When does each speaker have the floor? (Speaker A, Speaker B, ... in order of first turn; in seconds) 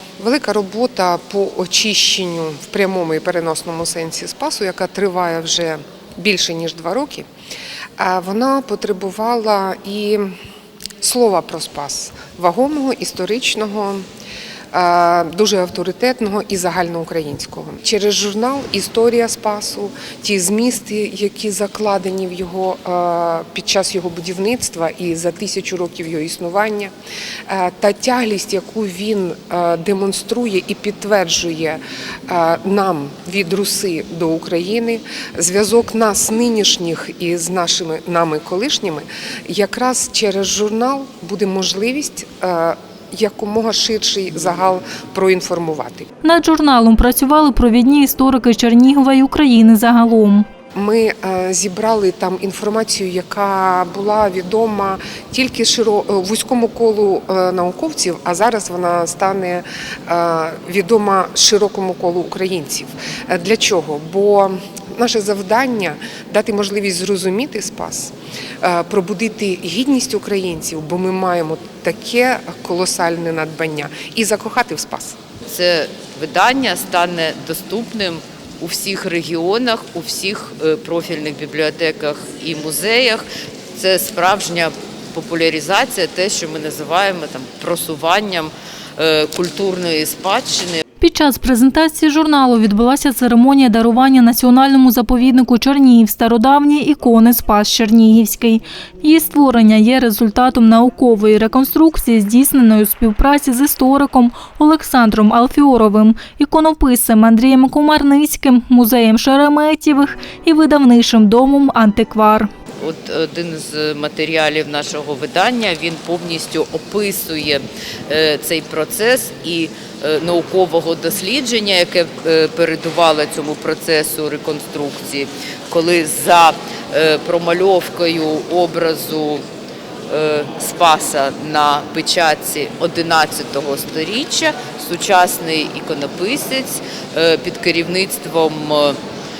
Speaker A: 0.2-7.2, 8.0-10.3, 11.0-14.0, 14.7-26.9, 27.5-46.1, 50.7-75.2
Speaker B: 46.2-50.5, 91.0-112.5
Speaker C: 75.5-90.8, 112.8-129.4, 130.1-139.0